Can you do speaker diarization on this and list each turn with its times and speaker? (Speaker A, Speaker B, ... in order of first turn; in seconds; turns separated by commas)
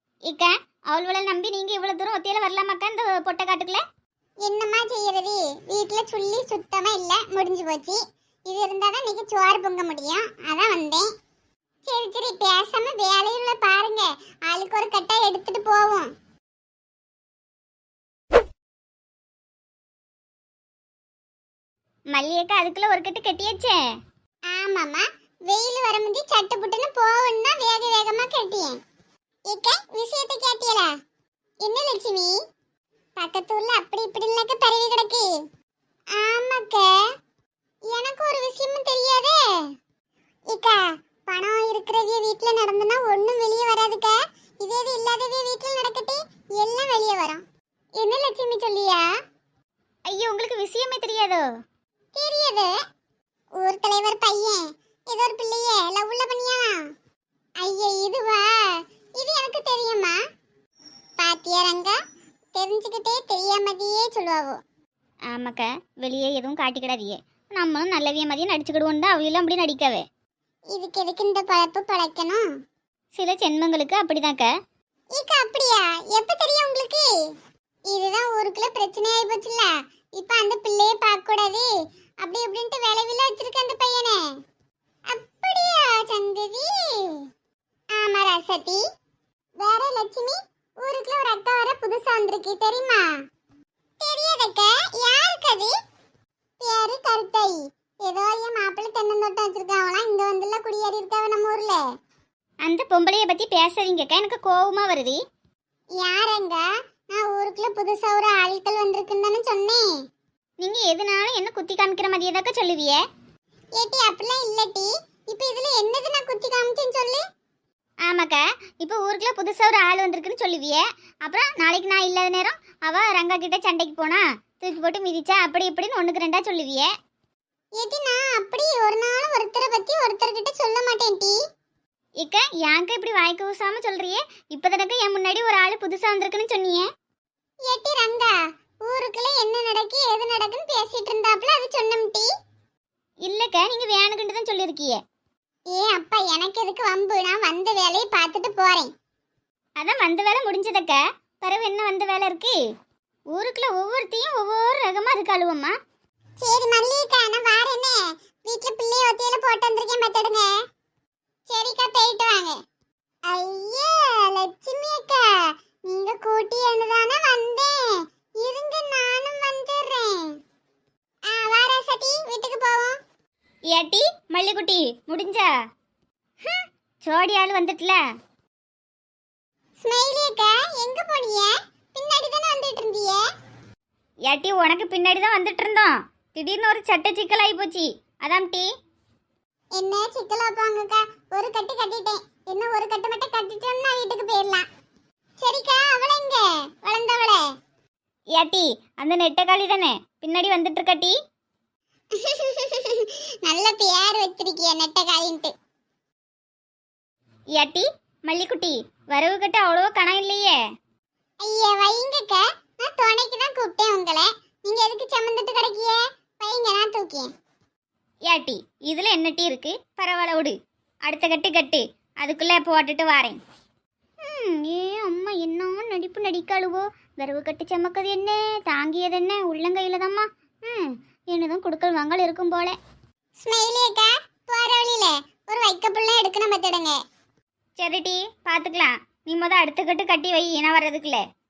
Speaker A: 0.3-3.8, Speaker B: 4.4-11.1, Speaker B: 11.9-16.1, Speaker A: 22.1-23.8, Speaker B: 24.5-28.8, Speaker B: 29.5-30.9, Speaker B: 31.6-32.3, Speaker B: 33.2-35.3, Speaker B: 36.2-36.9, Speaker B: 37.9-39.4, Speaker B: 40.5-47.4, Speaker B: 48.0-49.0, Speaker A: 50.1-51.4, Speaker B: 52.1-52.7, Speaker B: 53.6-56.8, Speaker B: 57.6-60.2, Speaker B: 61.2-62.0, Speaker B: 62.5-64.6, Speaker A: 65.3-70.0, Speaker B: 70.7-72.4, Speaker A: 73.2-74.5, Speaker B: 75.2-77.1, Speaker B: 77.9-81.7, Speaker B: 82.2-84.2, Speaker B: 85.1-87.2, Speaker B: 88.0-88.8, Speaker B: 89.6-93.0, Speaker B: 94.0-95.7, Speaker B: 96.6-101.8, Speaker A: 102.7-105.2, Speaker B: 106.0-106.6, Speaker B: 107.1-109.8, Speaker A: 110.6-113.0, Speaker B: 113.8-117.2, Speaker A: 118.1-126.9, Speaker B: 127.8-131.4, Speaker A: 132.2-136.8, Speaker B: 137.7-138.3, Speaker B: 138.9-142.3, Speaker A: 143.2-145.0, Speaker B: 145.7-148.9, Speaker A: 149.8-152.6, Speaker A: 153.3-155.7, Speaker B: 156.4-160.5, Speaker B: 161.5-162.6, Speaker B: 163.3-165.2, Speaker B: 165.9-167.8, Speaker B: 168.4-170.3, Speaker B: 171.3-172.9, Speaker A: 173.7-175.5, Speaker A: 177.1-178.0, Speaker B: 179.8-183.2, Speaker A: 184.3-188.7, Speaker B: 189.8-194.7, Speaker B: 195.4-197.4, Speaker A: 198.4-201.1, Speaker B: 202.2-205.5, Speaker A: 207.6-210.6, Speaker B: 211.4-217.3, Speaker A: 218.3-220.6, Speaker A: 221.1-223.4, Speaker A: 224.2-232.8, Speaker B: 233.4-237.0, Speaker A: 237.8-241.2